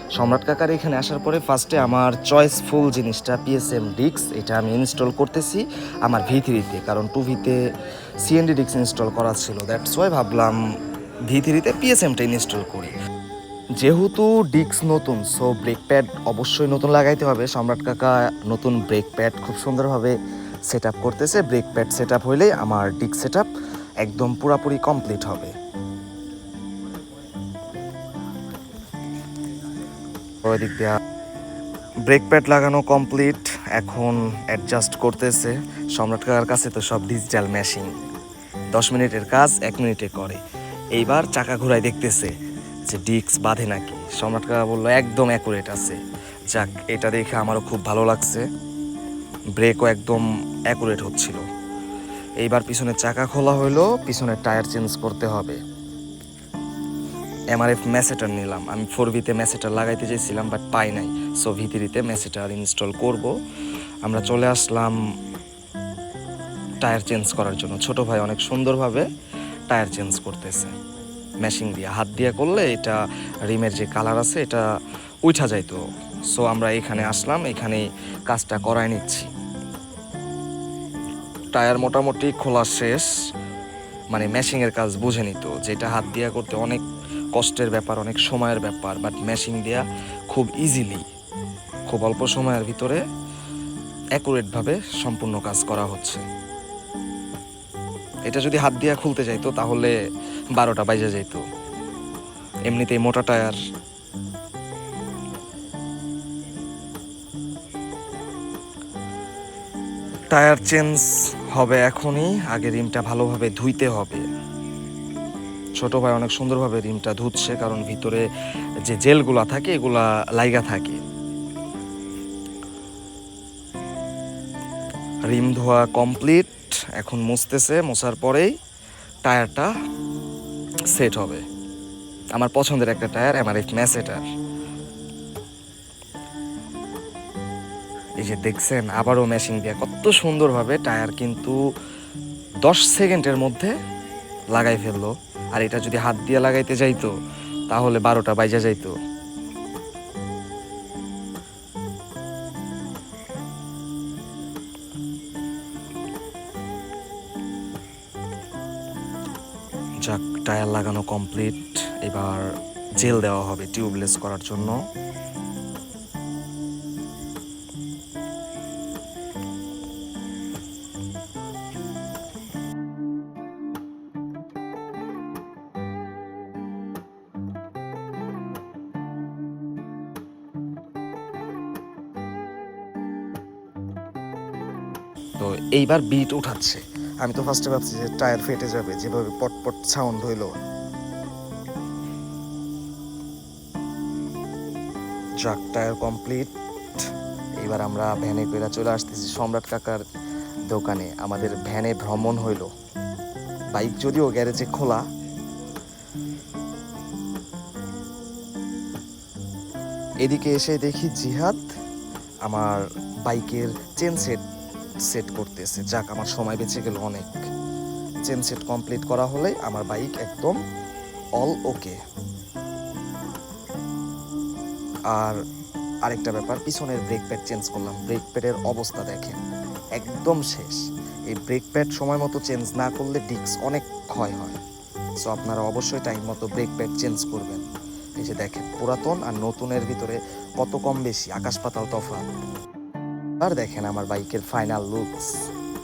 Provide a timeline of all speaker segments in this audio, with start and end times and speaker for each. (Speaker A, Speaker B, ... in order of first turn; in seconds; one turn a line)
Speaker A: 0.2-7.6
Speaker A: 8.2-10.6
Speaker A: 11.3-12.9
Speaker A: 13.8-20.2
Speaker A: 20.7-23.5
Speaker A: 24.0-25.5
Speaker A: 30.4-31.0
Speaker A: 32.1-37.9
Speaker A: 38.7-40.4
Speaker A: 40.9-42.3
Speaker A: 42.9-46.0
Speaker A: 46.5-48.5
Speaker A: 49.6-51.5
Speaker A: 52.4-55.6
Speaker A: 57.5-63.4
Speaker A: 64.0-65.0
Speaker A: 66.8-69.1
Speaker A: 69.7-70.8
Speaker A: 71.4-74.7
Speaker A: 75.2-79.3
Speaker A: 81.5-83.1
Speaker A: 84.1-86.8
Speaker A: 87.3-91.0
Speaker A: 91.9-93.0
Speaker A: 94.2-96.2
Speaker A: 98.3-99.9
Speaker A: 100.5-101.4
Speaker A: 102.7-103.6
Speaker A: 110.3-114.2
Speaker A: 115.8-118.3
Speaker A: 118.8-121.0
Speaker A: 125.3-128.5
Speaker A: 129.2-129.7
Speaker A: 130.9-131.4
Speaker A: 132.3-134.2
Speaker A: 138.2-141.6
Speaker A: 142.6-143.8
Speaker A: 144.6-147.1
Speaker A: 147.7-148.9
Speaker A: 160.0-164.8
Speaker A: 185.4-190.6
Speaker A: 195.4-197.1
Speaker A: 197.6-200.0
Speaker A: 200.7-202.7
Speaker A: 203.8-205.1
Speaker A: 210.2-211.6
Speaker A: 212.5-214.4
Speaker A: 215.1-217.4
Speaker A: 218.3-220.6
Speaker A: 221.4-222.0
Speaker A: 225.1-225.4
Speaker A: 226.1-229.4
Speaker A: 230.0-234.6
Speaker A: 235.2-237.6
Speaker A: 238.2-242.3
Speaker A: 243.4-245.5